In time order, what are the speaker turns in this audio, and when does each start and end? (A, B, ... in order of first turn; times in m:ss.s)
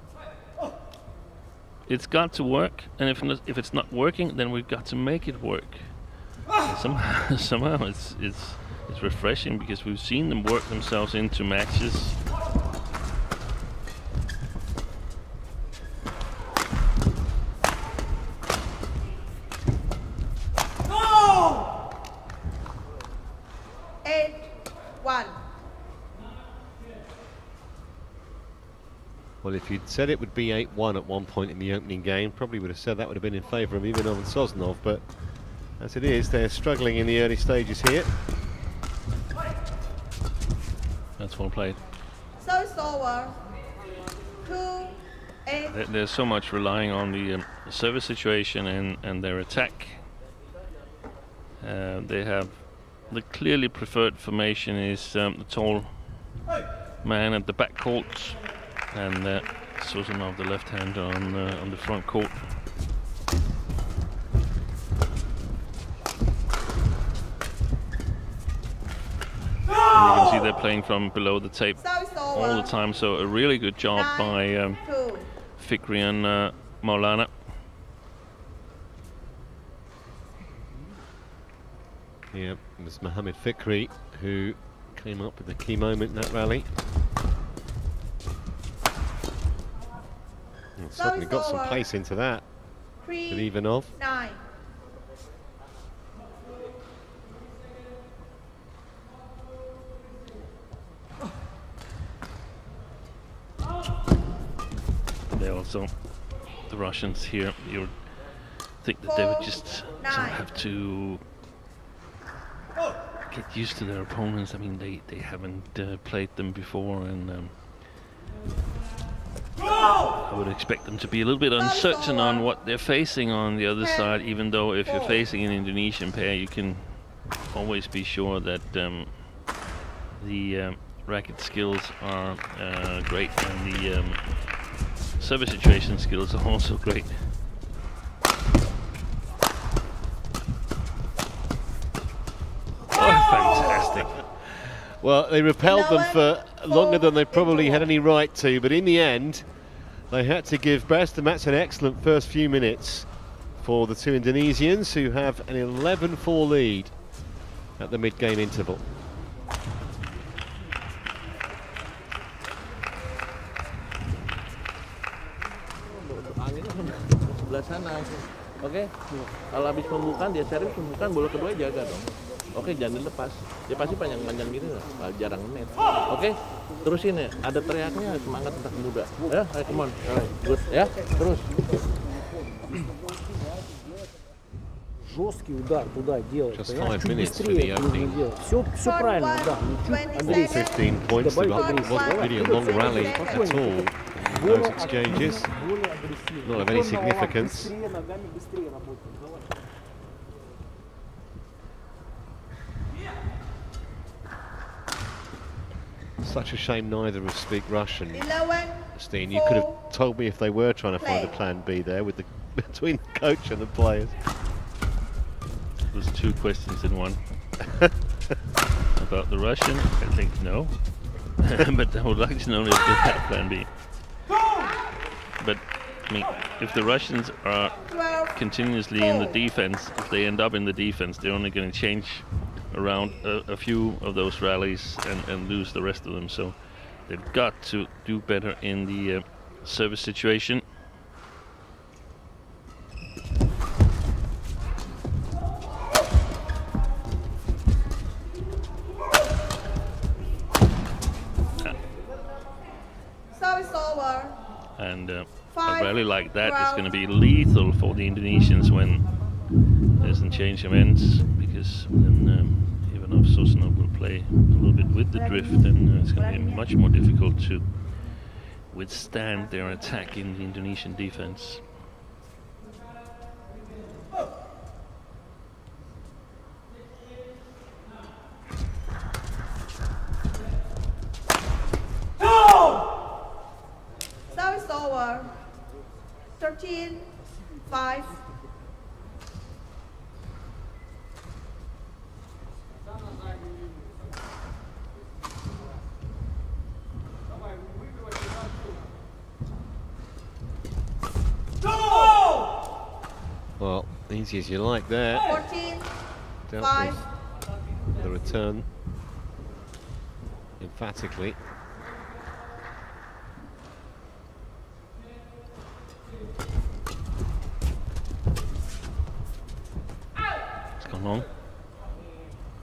0:01.9-0:12.2 A
0:24.0-0:25.4 B
0:29.4-0:35.0 C
0:35.8-0:38.1 C
0:41.2-0:41.8 A
0:42.4-0:43.4 B
0:44.4-0:45.8 B
0:45.7-0:50.1 A
0:51.6-0:56.3 A
0:57.0-1:02.6 A
1:09.9-1:14.8 A
1:11.8-1:12.7 B
1:14.0-1:15.3 B
1:15.5-1:17.5 A
1:22.3-1:26.7 C
1:30.8-1:32.4 C
1:31.0-1:31.8 B
1:33.0-1:34.4 B
1:33.3-1:33.9 C
1:45.3-1:45.9 A
1:46.6-1:51.2 A
1:49.1-1:50.4 B
1:53.3-1:57.8 A
2:00.2-2:09.5 A
2:01.6-2:02.4 B
2:03.8-2:04.2 B
2:04.9-2:05.2 B
2:10.2-2:14.6 A
2:15.2-2:17.4 A
2:22.9-2:24.3 A
2:25.0-2:29.5 C
2:25.6-2:27.9 B
2:30.1-2:33.1 C
2:33.6-2:37.0 C
2:37.8-2:38.8 C
2:46.0-3:01.5 D
3:05.0-3:19.1 E
3:06.5-3:08.2 C
3:08.8-3:10.8 B
3:10.2-3:15.6 C
3:11.5-3:13.6 B
3:16.4-3:17.7 C
3:26.2-3:28.3 C
3:28.1-3:29.7 B
3:28.9-3:34.1 C
3:31.0-3:31.4 B
3:35.8-3:37.2 A
3:39.0-3:44.1 A
3:45.4-4:00.6 A
3:47.9-3:48.4 B
3:49.0-3:49.4 B
4:13.3-4:14.4 B
4:14.8-4:19.4 A
4:15.5-4:16.8 B
4:20.0-4:31.8 A
4:25.1-4:26.6 B
4:44.3-4:45.4 B
4:46.4-4:47.1 B
4:47.7-4:48.2 B
5:03.6-5:05.4 C
5:05.2-5:05.9 B
5:06.5-5:07.1 C
5:06.6-5:07.0 B
5:08.0-5:08.7 C
5:10.6-5:11.4 C
5:20.8-5:21.3 A